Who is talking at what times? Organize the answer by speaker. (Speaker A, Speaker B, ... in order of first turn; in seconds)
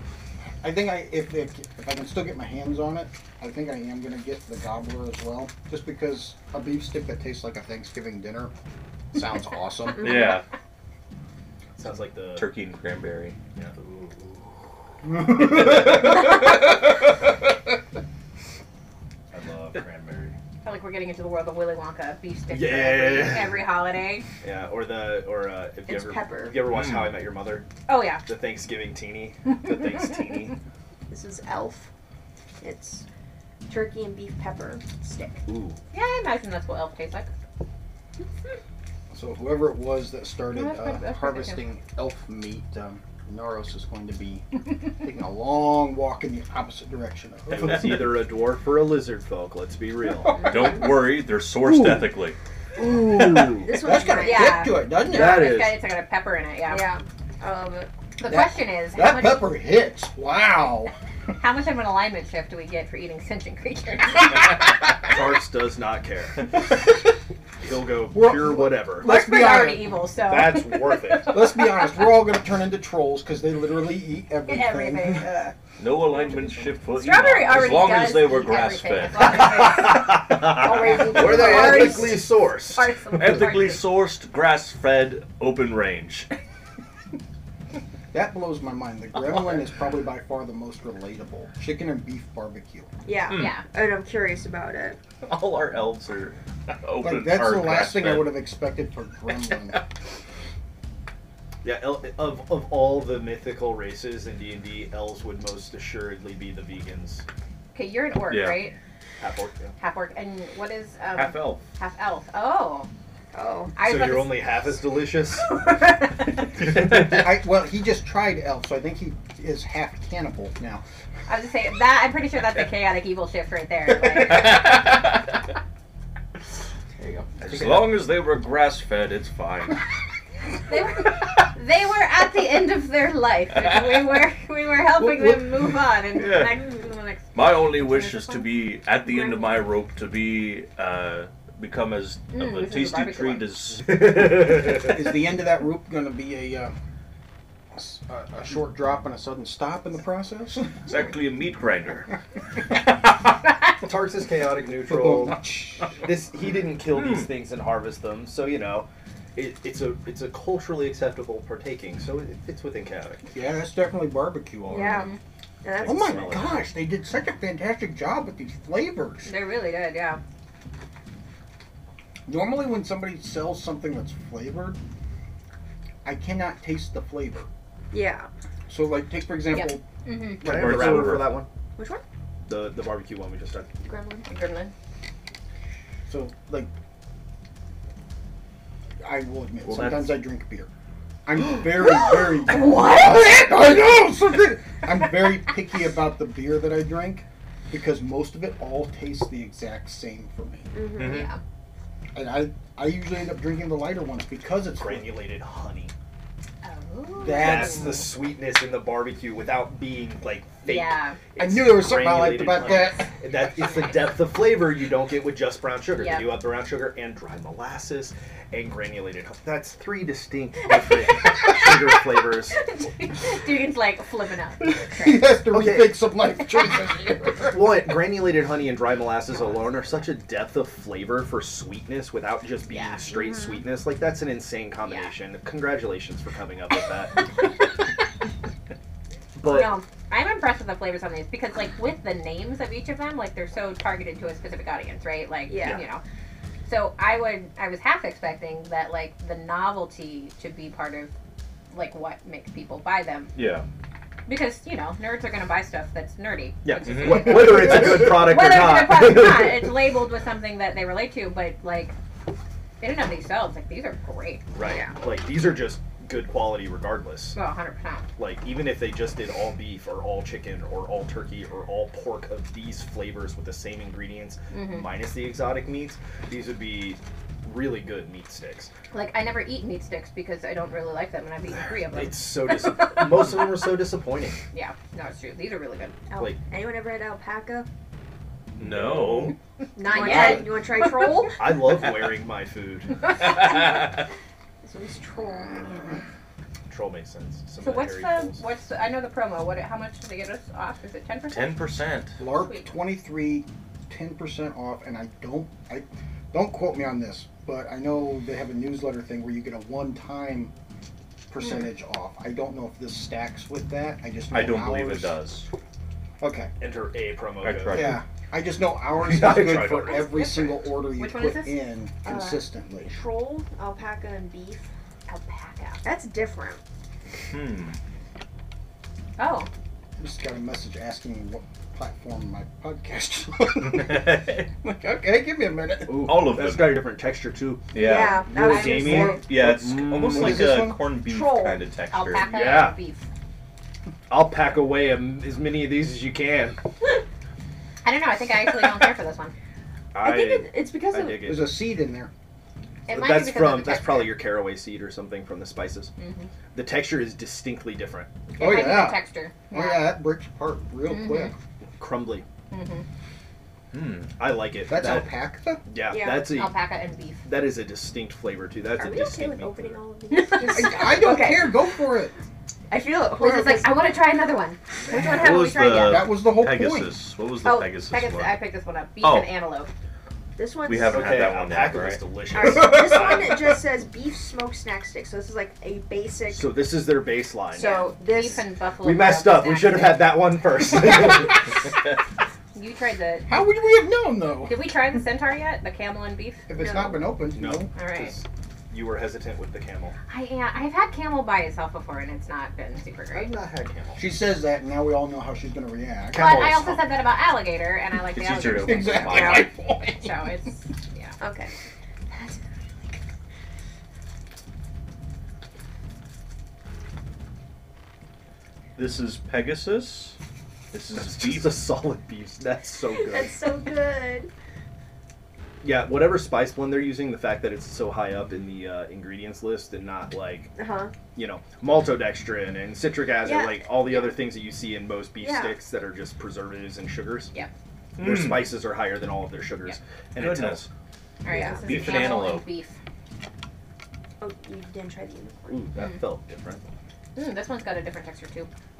Speaker A: 0.6-8.5, 9.1-10.3, 15.3-15.6, 39.1-48.0, 53.1-55.5, 58.2-60.9, 68.1-70.0, 71.2-75.6, 88.1-92.9, 97.0-99.8, 116.7-120.8, 144.5-146.7, 147.7-150.8, 154.9-155.9, 163.3-165.1, 165.8-169.3, 172.2-174.8, 176.0-177.5, 178.7-179.8, 186.1-186.7, 189.0-190.7, 191.2-200.7, 202.1-205.1, 207.2-208.1, 211.4-213.1, 224.6-227.7, 302.2-310.5, 311.3-315.2, 316.2-316.5, 317.7-322.9, 330.0-336.1, 338.8-340.9, 351.2-352.1, 358.4-361.3, 364.7-365.6, 370.4-372.1, 375.8-377.0, 393.3-394.6, 396.5-397.7, 403.9-406.4, 408.6-410.2
Speaker B: 9.9-10.4, 12.3-13.3, 26.7-27.2, 50.4-52.4, 75.8-79.5, 83.1-86.3, 95.2-98.5, 108.3-108.6, 111.1-111.6, 124.2-125.3, 127.4-129.8, 136.1-136.7, 137.3-144.3, 150.8-152.1, 152.9-153.1, 156.9-157.3, 180.4-181.4, 189.6-190.2, 200.9-201.3, 253.3-253.6, 256.9-257.2, 288.6-289.3, 301.3-302.2, 314.3-315.5, 317.4-318.0, 327.3-327.8, 333.7-334.5, 335.9-336.8, 337.7-342.5, 363.7-364.2, 374.9-378.4, 379.0-379.3, 380.6-382.0, 408.1-409.5, 418.8-420.2, 420.7-421.6, 438.0-438.5, 440.2-440.6, 441.5-442.5
Speaker C: 11.8-12.5, 13.6-14.3, 19.3-20.4, 22.5-23.6, 24.4-27.7, 28.2-30.6, 35.5-35.8, 47.5-50.5, 52.8-53.8, 54.9-55.8, 64.9-66.6, 67.6-69.1, 70.2-71.4, 79.2-83.2, 101.6-107.2, 109.2-109.7, 113.8-115.6, 144.5-144.7, 153.8-155.4, 156.0-163.2, 165.7-166.7, 180.4-181.5, 182.4-183.7, 204.8-205.9, 207.2-222.6, 225.5-226.0, 227.3-237.3, 239.3-239.8, 256.6-259.7, 264.5-267.4, 268.2-278.7, 281.9-284.4, 288.6-289.3, 291.4-293.0, 296.7-298.4, 316.6-318.0, 318.9-320.1, 335.9-337.7, 338.3-340.5, 342.2-342.8, 344.1-346.6, 349.9-351.6, 352.9-355.9, 356.5-358.1, 361.8-362.2, 364.2-365.1, 365.6-366.6, 367.2-369.8, 380.9-383.6, 386.3-387.8, 388.8-391.6, 397.3-399.9, 403.1-404.1, 406.1-406.9, 420.9-423.5, 425.6-430.5, 431.1-437.3, 438.0-440.7, 445.5-446.6
Speaker D: 20.6-24.2, 27.9-28.2, 35.9-37.3, 40.5-41.6, 54.1-56.9, 58.2-59.5, 61.4-64.5, 69.0-72.1, 74.5-75.4, 76.9-80.1, 81.1-83.8, 93.3-93.6, 107.7-108.8, 109.8-112.9, 113.8-114.5, 121.3-124.7, 130.7-138.5, 142.3-143.5, 164.8-165.1, 169.2-170.2, 179.5-180.4, 184.3-184.7, 201.0-201.4, 206.6-208.0, 210.6-211.2, 213.6-214.0, 215.9-216.4, 222.5-225.3, 232.7-233.1, 234.8-235.1, 239.4-246.0, 246.7-251.1, 251.7-253.3, 254.3-261.9, 262.8-264.4, 267.3-268.0, 274.5-274.9, 278.9-283.3, 284.5-285.9, 289.8-290.9, 297.6-301.6, 320.8-321.6, 325.1-325.8, 329.2-329.5, 338.2-339.0, 341.9-343.0, 347.8-349.3, 352.9-354.2, 356.0-356.3, 358.4-359.9, 360.8-361.3, 362.5-362.8, 366.3-367.2, 370.1-370.9, 373.1-376.1, 377.7-379.7, 387.6-390.0, 392.5-393.4, 394.4-396.4, 397.7-398.2, 400.1-403.3, 406.1-411.2, 441.2-442.8, 447.1-448.5
Speaker E: 25.9-26.6, 31.1-31.9, 32.6-33.0, 33.7-35.5, 53.6-54.7, 56.6-57.9, 80.4-82.2, 93.0-95.0, 113.3-113.7, 164.7-165.1, 165.6-166.4, 177.9-178.3, 181.8-182.0, 183.8-184.3, 200.7-201.3, 245.5-245.8, 264.6-264.9, 286.1-287.7, 289.8-291.4, 293.3-293.6, 294.6-296.0, 322.0-324.7, 325.8-326.6, 337.7-339.2, 340.9-341.6, 350.0-351.3, 365.9-366.4, 368.8-371.6, 372.7-373.9, 377.4-377.7, 380.4-381.3, 382.3-386.6, 387.5-388.4, 396.6-397.1, 409.1-409.5, 411.2-411.5, 412.1-412.9, 422.9-424.3, 430.6-430.9, 433.2-434.0, 435.2-435.6, 441.3-442.0, 444.2-445.6